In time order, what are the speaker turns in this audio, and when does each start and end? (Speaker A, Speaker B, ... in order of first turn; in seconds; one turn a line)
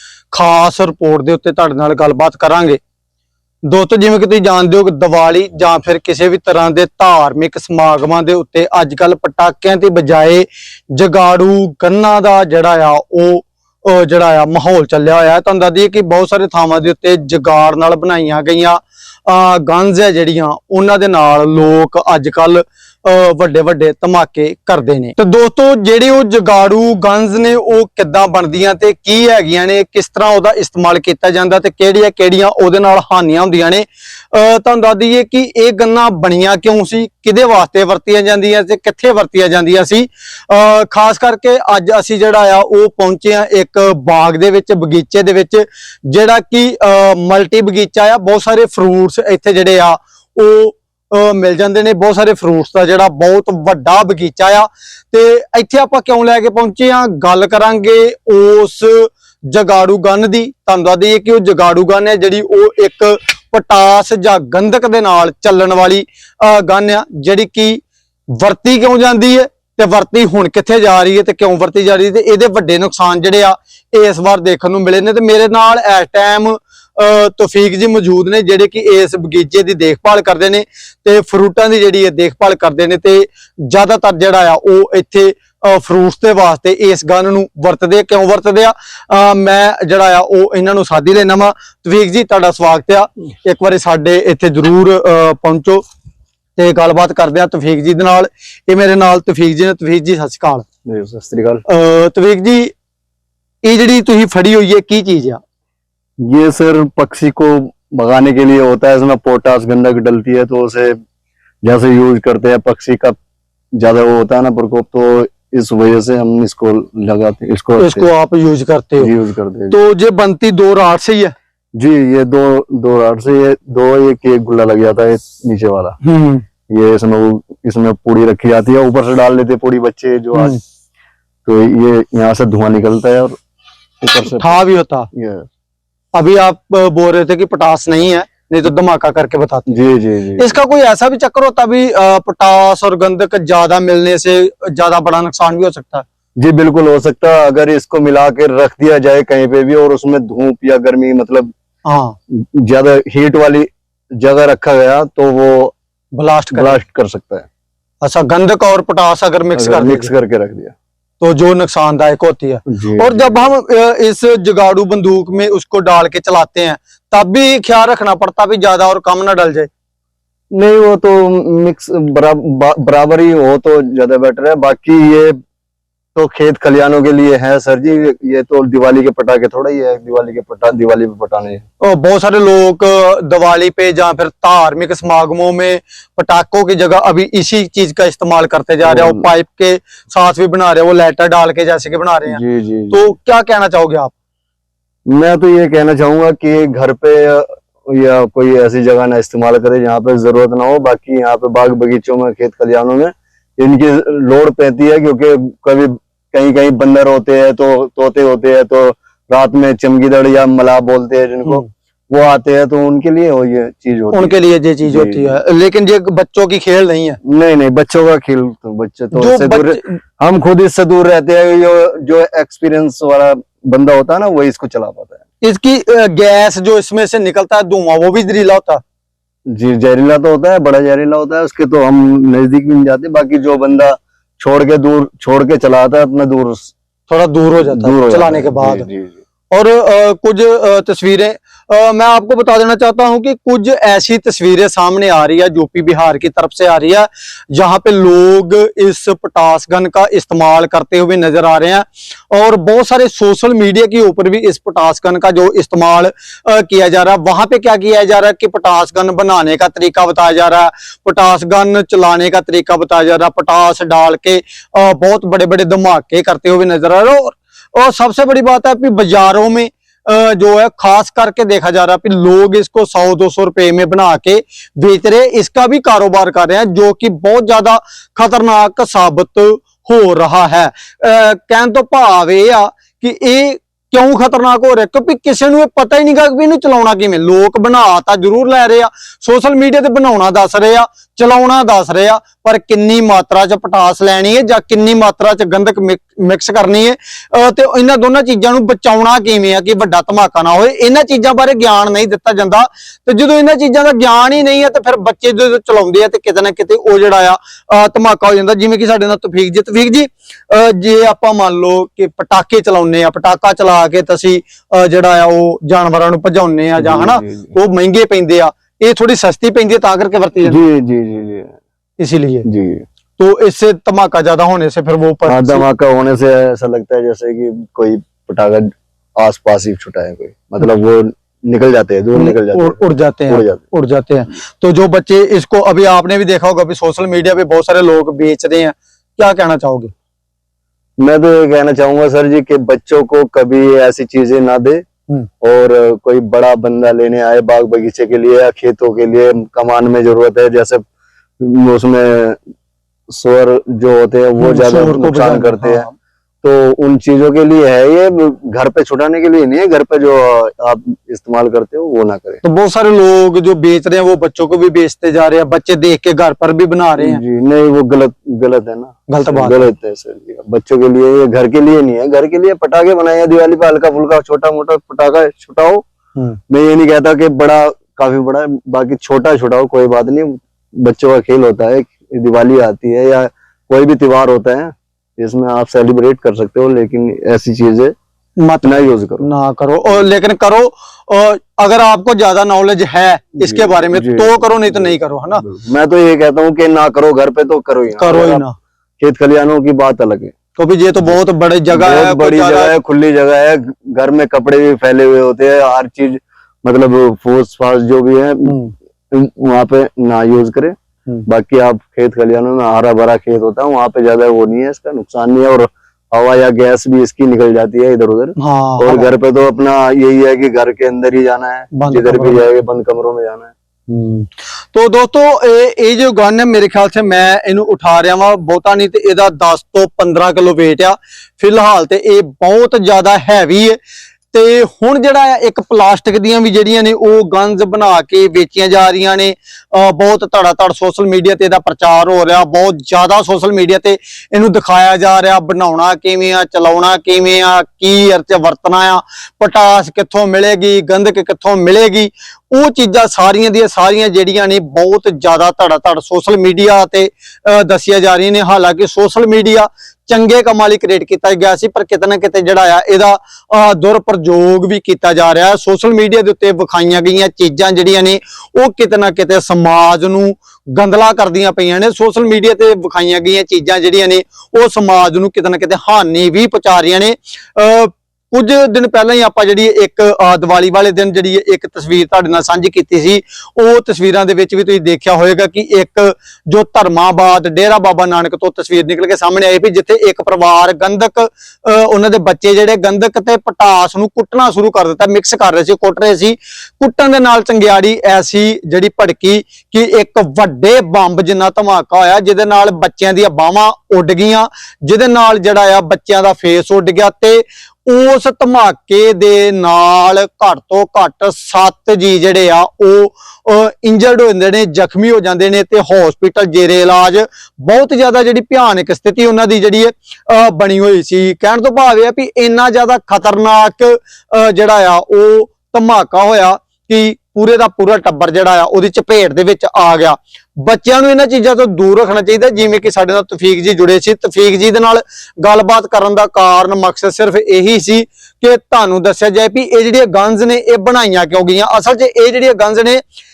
Speaker A: 0.3-2.8
Speaker A: 3.6-67.8
Speaker A: 68.3-95.8
Speaker A: 96.6-100.7
Speaker B: 100.9-101.6
Speaker A: 101.7-102.7
Speaker A: 103.6-105.4
Speaker B: 106.2-111.0
Speaker B: 111.6-113.2
Speaker B: 113.7-118.1
Speaker A: 117.8-119.1
Speaker B: 119.0-119.8
Speaker A: 119.7-121.3
Speaker B: 121.8-126.0
Speaker A: 126.0-126.4
Speaker B: 126.7-130.6
Speaker A: 130.3-130.6
Speaker B: 131.4-133.4
Speaker B: 134.0-134.6
Speaker A: 134.3-135.1
Speaker B: 135.1-135.5
Speaker A: 136.1-139.7
Speaker B: 139.7-140.6
Speaker A: 140.4-146.1
Speaker B: 146.4-151.5
Speaker A: 151.8-152.2
Speaker B: 152.3-155.8
Speaker A: 156.2-156.8
Speaker B: 156.5-157.5
Speaker A: 158.0-160.1
Speaker B: 159.6-160.7
Speaker A: 161.2-169.7
Speaker B: 162.7-163.5
Speaker B: 170.5-175.4
Speaker B: 176.2-181.6
Speaker A: 181.8-194.1
Speaker B: 188.8-189.3
Speaker B: 192.3-193.1
Speaker B: 195.1-214.3
Speaker A: 214.1-217.2
Speaker B: 214.9-215.4
Speaker B: 217.2-225.2
Speaker A: 219.1-219.9
Speaker A: 225.4-228.8
Speaker B: 229.5-236.7
Speaker A: 237.1-238.9
Speaker B: 237.6-239.2
Speaker A: 239.5-320.6
Speaker B: 316.8-317.6
Speaker B: 320.4-321.6
Speaker A: 322.0-322.5
Speaker B: 322.5-322.9
Speaker A: 323.2-325.6
Speaker B: 325.3-333.6
Speaker A: 332.1-339.9
Speaker B: 341.0-344.8
Speaker B: 345.4-350.8
Speaker B: 351.4-352.4
Speaker B: 353.1-355.9
Speaker A: 354.4-355.9
Speaker B: 356.4-362.4
Speaker A: 362.4-367.2
Speaker B: 367.0-375.8
Speaker A: 369.1-369.7
Speaker B: 376.5-387.9
Speaker A: 388.4-395.4
Speaker B: 388.6-389.3
Speaker B: 393.4-398.4
Speaker A: 398.0-398.5
Speaker B: 399.0-400.3
Speaker A: 400.6-402.8
Speaker B: 401.7-408.6
Speaker A: 408.4-408.7
Speaker B: 409.1-410.8
Speaker B: 411.3-423.5
Speaker A: 418.4-419.1
Speaker A: 421.7-422.5
Speaker A: 423.9-433.8
Speaker A: 434.3-543.0